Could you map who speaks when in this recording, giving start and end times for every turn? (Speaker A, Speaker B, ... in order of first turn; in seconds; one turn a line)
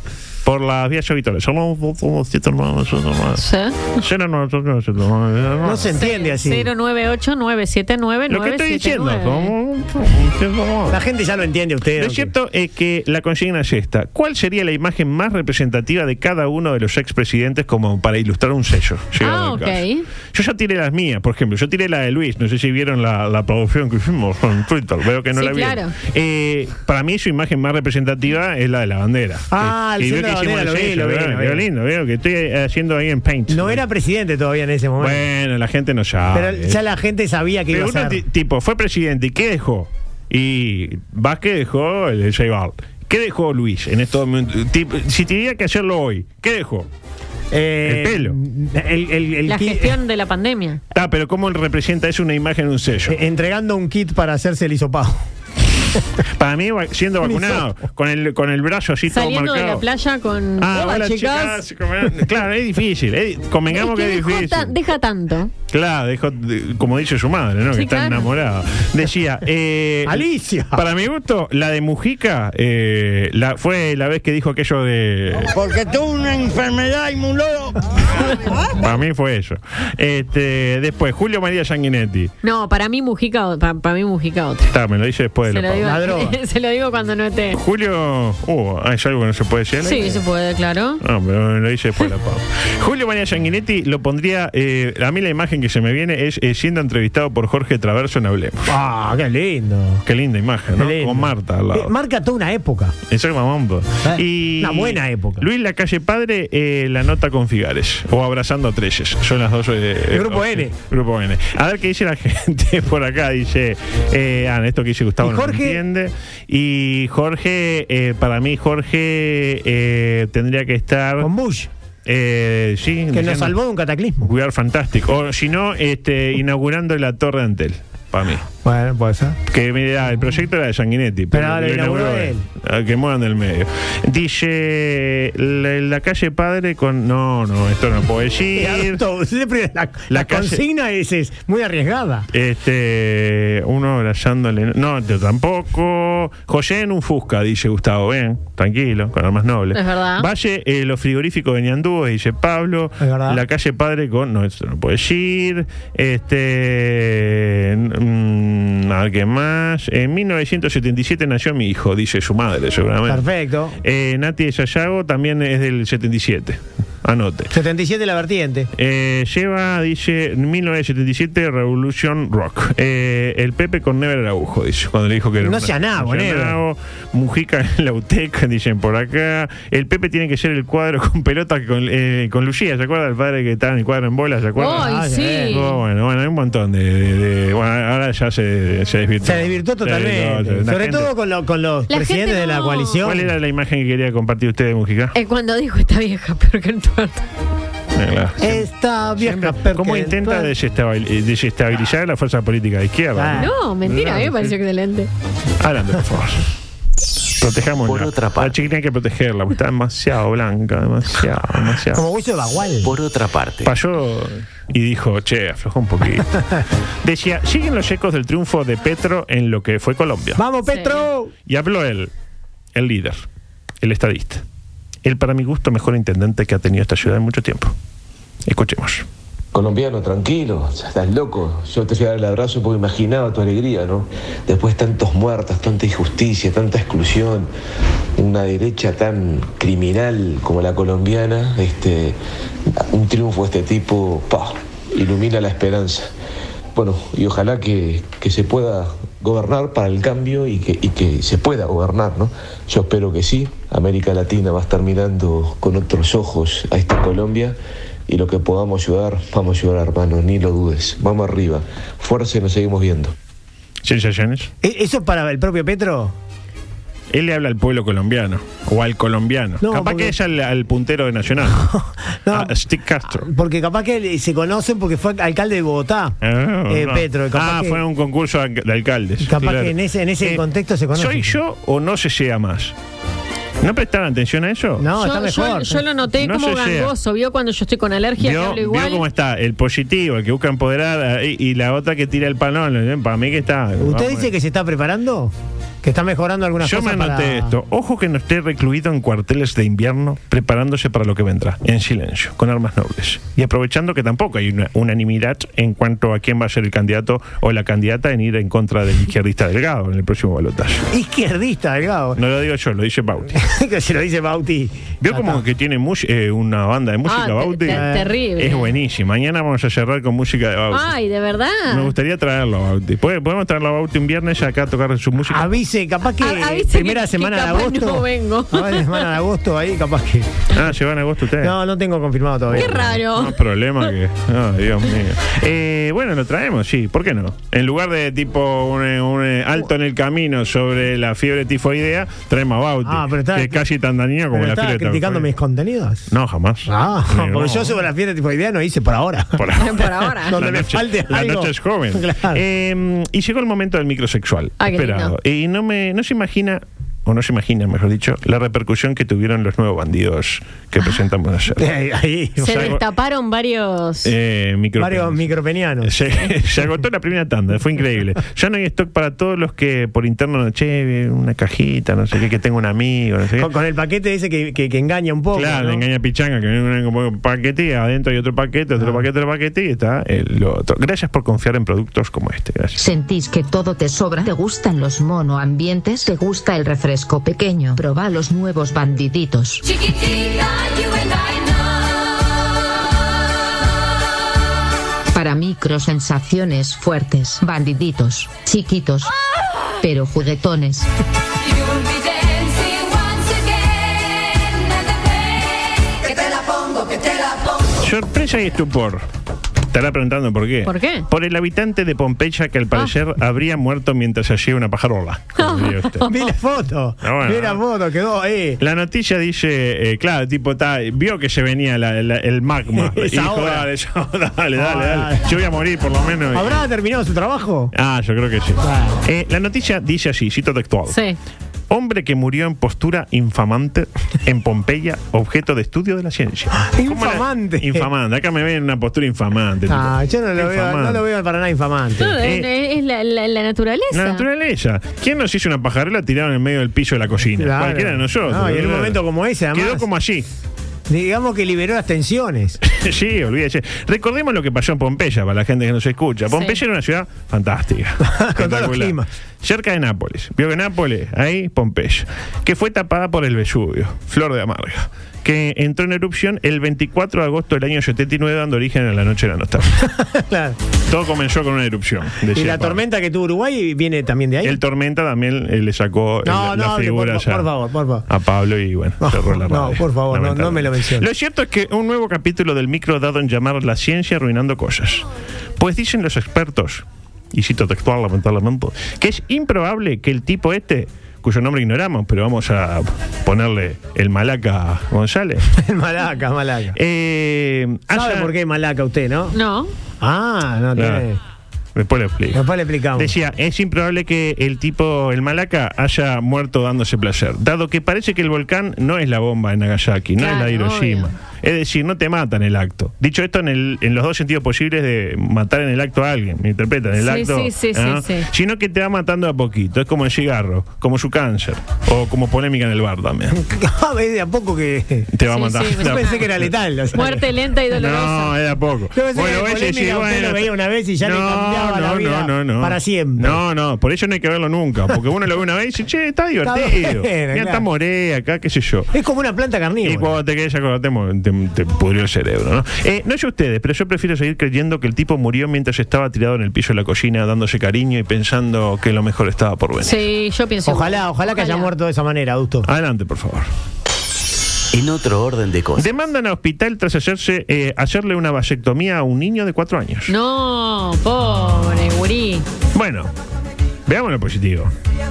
Speaker A: 0.5-3.4
Speaker B: 3.4-3.8
Speaker A: 3.9-5.9
Speaker C: 5.6-6.7
Speaker B: 6.0-9.5
Speaker A: 8.3-11.0
Speaker C: 10.9-12.3
Speaker A: 12.0-33.8
Speaker B: 19.2-20.1
Speaker B: 25.4-25.9
Speaker C: 29.5-31.7
Speaker C: 33.5-35.2
Speaker A: 35.0-36.8
Speaker C: 36.3-38.2
Speaker A: 37.7-46.9
Speaker C: 47.5-50.0
Speaker A: 47.9-48.4
Speaker B: 49.5-50.8
Speaker A: 50.9-53.2
Speaker C: 53.1-55.2
Speaker A: 56.4-59.8
Speaker C: 57.2-57.7
Speaker B: 59.1-61.6
Speaker A: 60.6-64.8
Speaker B: 63.7-65.5
Speaker A: 65.7-75.5
Speaker B: 67.7-68.3
Speaker C: 70.1-70.8
Speaker D: 75.5-77.8
Speaker A: 78.6-82.3
Speaker B: 82.4-84.7
Speaker A: 84.7-86.1
Speaker B: 85.5-87.6
Speaker C: 85.8-86.4
Speaker A: 87.5-90.2
Speaker B: 89.8-91.0
Speaker A: 91.0-98.7
Speaker C: 98.7-100.0
Speaker A: 100.1-101.9
Speaker C: 100.8-103.0
Speaker A: 103.1-121.3
Speaker C: 104.0-105.5
Speaker C: 110.1-110.8
Speaker C: 115.2-115.8
Speaker C: 121.2-121.7
Speaker A: 122.1-123.5
Speaker C: 123.1-124.3
Speaker A: 124.2-128.4
Speaker C: 128.6-129.4
Speaker A: 129.5-139.0
Speaker C: 131.3-132.4
Speaker C: 138.5-142.3
Speaker A: 140.1-140.6
Speaker A: 142.3-163.2
Speaker B: 149.7-150.3
Speaker C: 153.0-153.4
Speaker C: 163.1-163.8
Speaker A: 163.8-167.5
Speaker C: 167.5-168.7
Speaker A: 168.8-191.1
Speaker C: 175.4-176.6
Speaker B: 184.6-185.8
Speaker C: 184.7-185.6
Speaker C: 189.2-193.3
Speaker B: 191.9-193.0
Speaker A: 193.0-195.2
Speaker B: 195.1-197.2
Speaker A: 197.9-204.5
Speaker C: 198.4-200.5
Speaker C: 203.2-203.5
Speaker B: 203.3-205.1
Speaker A: 205.6-206.5
Speaker A: 207.4-212.0
Speaker E: 207.8-208.6
Speaker C: 211.9-212.9
Speaker E: 212.8-213.7
Speaker A: 213.6-216.4
Speaker A: 217.0-220.4
Speaker C: 220.4-221.3
Speaker B: 220.7-221.1
Speaker A: 221.5-222.1
Speaker A: 222.8-223.2
Speaker A: 223.8-224.4
Speaker A: 225.1-227.7
Speaker A: 228.5-229.1
Speaker F: 229.5-237.5
Speaker F: 238.2-242.2
Speaker F: 242.7-246.1
Speaker F: 246.7-257.6
Speaker F: 258.1-263.1
Speaker A: 263.8-264.5
Speaker C: 264.6-266.1
Speaker A: 267.1-271.7
Speaker C: 269.6-270.1
Speaker C: 271.6-272.6
Speaker A: 272.3-273.3
Speaker C: 273.1-276.2
Speaker A: 276.2-282.8
Speaker C: 276.7-277.8
Speaker C: 279.2-281.3
Speaker A: 283.6-284.9
Speaker C: 284.8-285.9
Speaker B: 285.0-289.1
Speaker A: 286.1-286.9
Speaker A: 288.2-294.3
Speaker C: 293.8-297.5
Speaker A: 296.6-310.9
Speaker C: 310.9-312.2
Speaker A: 312.2-313.4
Speaker C: 313.3-315.4
Speaker A: 315.0-320.9
Speaker B: 317.1-318.7
Speaker C: 317.7-318.1
Speaker B: 320.7-321.9
Speaker A: 321.7-325.6
Speaker C: 325.3-330.3
Speaker B: 326.2-329.1
Speaker A: 330.5-331.6
Speaker C: 331.4-333.0
Speaker A: 332.5-345.3
Speaker B: 332.5-333.4
Speaker C: 342.9-343.6
Speaker C: 344.3-346.1
Speaker A: 346.1-347.8
Speaker C: 346.7-349.5
Speaker A: 349.4-361.7
Speaker B: 349.6-350.4
Speaker C: 350.2-352.4
Speaker B: 354.6-355.1
Speaker C: 361.6-362.8
Speaker B: 362.4-364.1
Speaker A: 362.4-362.8
Speaker A: 364.0-365.3
Speaker C: 364.8-366.0
Speaker A: 365.8-373.5
Speaker C: 373.4-375.8
Speaker A: 375.3-382.8
Speaker C: 378.8-379.0
Speaker G: 382.8-389.9
Speaker G: 395.1-399.1
Speaker G: 399.8-400.9
Speaker A: 407.8-409.1
Speaker A: 409.7-416.1
Speaker B: 410.6-411.1
Speaker B: 415.4-416.3
Speaker C: 416.1-418.6
Speaker A: 417.0-417.6
Speaker A: 418.6-426.6
Speaker C: 422.8-423.7
Speaker C: 424.6-425.4
Speaker C: 426.3-427.7
Speaker A: 427.7-431.0
Speaker C: 428.6-429.0
Speaker B: 430.9-431.2
Speaker A: 431.7-441.0
Speaker C: 436.6-437.9
Speaker C: 439.7-442.2
Speaker B: 442.0-444.2
Speaker A: 442.2-442.5
Speaker A: 443.9-450.3
Speaker C: 447.4-449.9
Speaker C: 450.9-452.6
Speaker A: 452.6-469.8
Speaker B: 456.3-456.6
Speaker C: 458.0-459.1
Speaker C: 469.8-470.6
Speaker A: 470.9-472.8
Speaker C: 472.3-474.6
Speaker A: 474.4-477.5
Speaker C: 476.2-478.1
Speaker A: 478.1-485.1
Speaker C: 479.0-481.1
Speaker A: 485.6-495.5
Speaker C: 495.5-496.8
Speaker A: 496.8-498.3
Speaker C: 497.9-499.4
Speaker B: 499.3-499.7
Speaker C: 500.0-501.2
Speaker A: 500.8-501.1
Speaker A: 501.8-523.4
Speaker C: 502.3-503.1
Speaker B: 510.2-511.1
Speaker B: 517.0-518.3
Speaker C: 523.3-525.1
Speaker A: 525.1-526.5
Speaker B: 525.3-526.2
Speaker C: 525.7-527.3
Speaker B: 526.9-528.3
Speaker A: 527.7-538.9
Speaker C: 528.9-533.4
Speaker C: 536.4-537.7
Speaker C: 538.9-540.2
Speaker A: 539.8-550.0
Speaker B: 549.8-551.7
Speaker C: 550.7-552.7
Speaker A: 552.6-553.5
Speaker E: 554.7-555.9
Speaker A: 555.8-560.1
Speaker B: 560.1-562.5
Speaker A: 562.7-563.1
Speaker A: 563.9-564.7